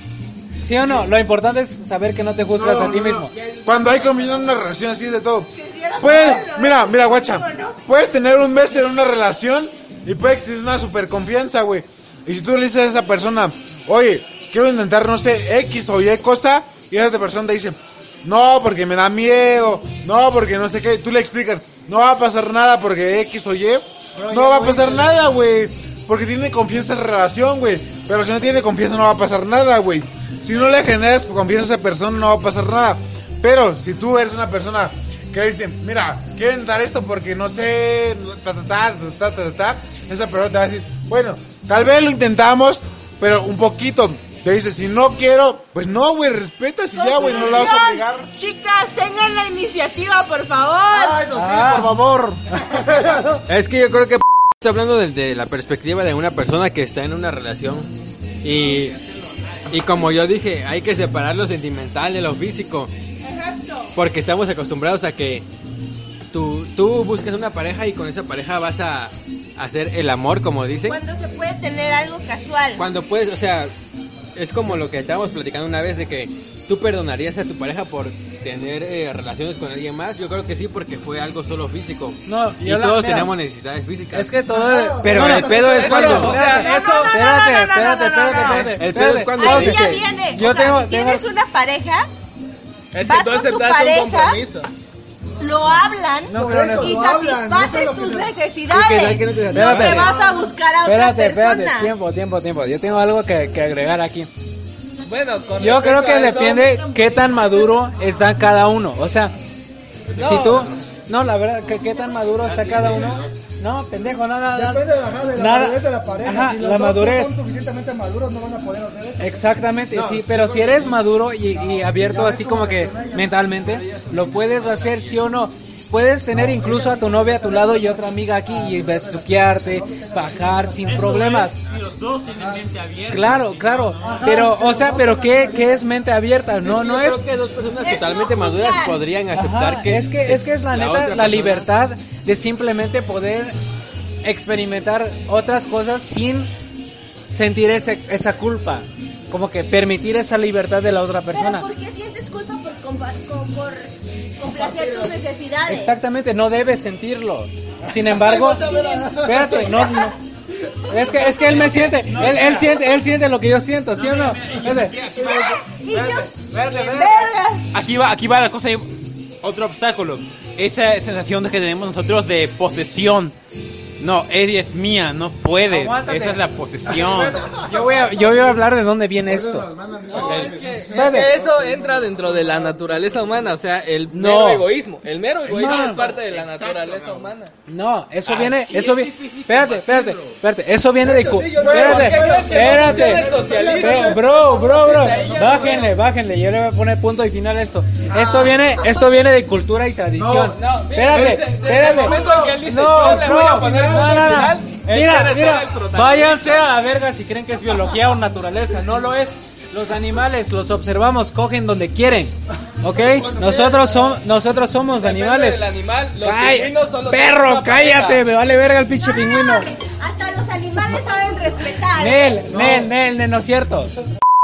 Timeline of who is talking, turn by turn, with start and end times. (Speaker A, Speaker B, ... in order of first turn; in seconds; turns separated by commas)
Speaker A: 0.6-3.3, Speaker B: 2.5-48.3, Speaker C: 3.3-4.5, Speaker D: 5.5-7.8, Speaker A: 24.1-25.3, Speaker D: 46.9-51.2, Speaker E: 50.9-53.4, Speaker A: 51.3-52.0, Speaker F: 53.5-57.9, Speaker F: 58.4-59.0, Speaker C: 58.4-60.1, Speaker F: 59.7-62.9, Speaker D: 63.2-63.9, Speaker F: 63.9-65.4, Speaker F: 66.3-71.0, Speaker D: 70.9-72.8, Speaker F: 72.8-73.7, Speaker F: 74.3-84.3, Speaker A: 82.2-83.3, Speaker A: 84.1-91.2, Speaker E: 84.5-86.6, Speaker F: 85.0-86.4, Speaker G: 85.6-87.2, Speaker D: 86.4-88.8, Speaker F: 88.3-90.1, Speaker D: 89.3-92.1, Speaker G: 92.9-94.7, Speaker D: 93.0-94.4, Speaker D: 95.4-101.9, Speaker A: 96.3-97.1, Speaker E: 96.3-98.3, Speaker F: 98.7-100.2, Speaker A: 99.5-100.1, Speaker E: 99.9-100.5, Speaker A: 100.8-104.3, Speaker G: 105.0-107.3, Speaker A: 105.6-109.3, Speaker G: 110.1-110.7, Speaker C: 110.1-110.7, Speaker A: 110.2-114.8, Speaker C: 112.4-113.3, Speaker F: 112.8-113.1, Speaker E: 114.5-119.5, Speaker A: 115.4-117.3, Speaker A: 119.2-131.6, Speaker B: 119.9-120.2, Speaker E: 120.1-123.5, Speaker F: 123.7-125.1, Speaker C: 124.5-125.1, Speaker E: 126.3-131.2, Speaker C: 130.8-134.5, Speaker E: 132.4-132.7, Speaker A: 133.1-137.2, Speaker E: 134.0-135.9, Speaker F: 136.6-141.7, Speaker D: 137.8-139.0, Speaker A: 139.3-143.6, Speaker A: 144.2-146.5, Speaker A: 147.0-151.7, Speaker D: 151.3-155.9, Speaker E: 154.5-155.2, Speaker A: 155.7-158.6, Speaker E: 157.9-160.1, Speaker D: 158.4-160.1, Speaker A: 159.1-160.1, Speaker E: 160.7-161.0, Speaker A: 160.9-165.0, Speaker C: 161.1-162.9, Speaker C: 163.9-168.9, Speaker D: 165.2-167.6, Speaker B: 165.2-166.2, Speaker C: 169.4-173.3, Speaker C: 174.0-177.4, Speaker A: 175.7-176.4, Speaker E: 176.9-177.7, Speaker A: 177.6-181.3, Speaker B: 177.7-182.3, Speaker G: 180.1-187.5, Speaker A: 184.1-184.7, Speaker A: 185.5-186.1, Speaker C: 185.5-187.3, Speaker A: 187.7-215.6, Speaker C: 188.2-190.4, Speaker E: 191.0-195.8, Speaker B: 191.6-192.4, Speaker G: 191.7-195.9, Speaker E: 198.2-198.5, Speaker B: 200.2-200.5, Speaker G: 200.5-206.7, Speaker B: 201.1-204.4, Speaker E: 213.0-213.9, Speaker G: 214.9-218.2, Speaker A: 216.2-219.7, Speaker D: 219.0-222.4, Speaker A: 221.9-223.9, Speaker B: 222.5-222.9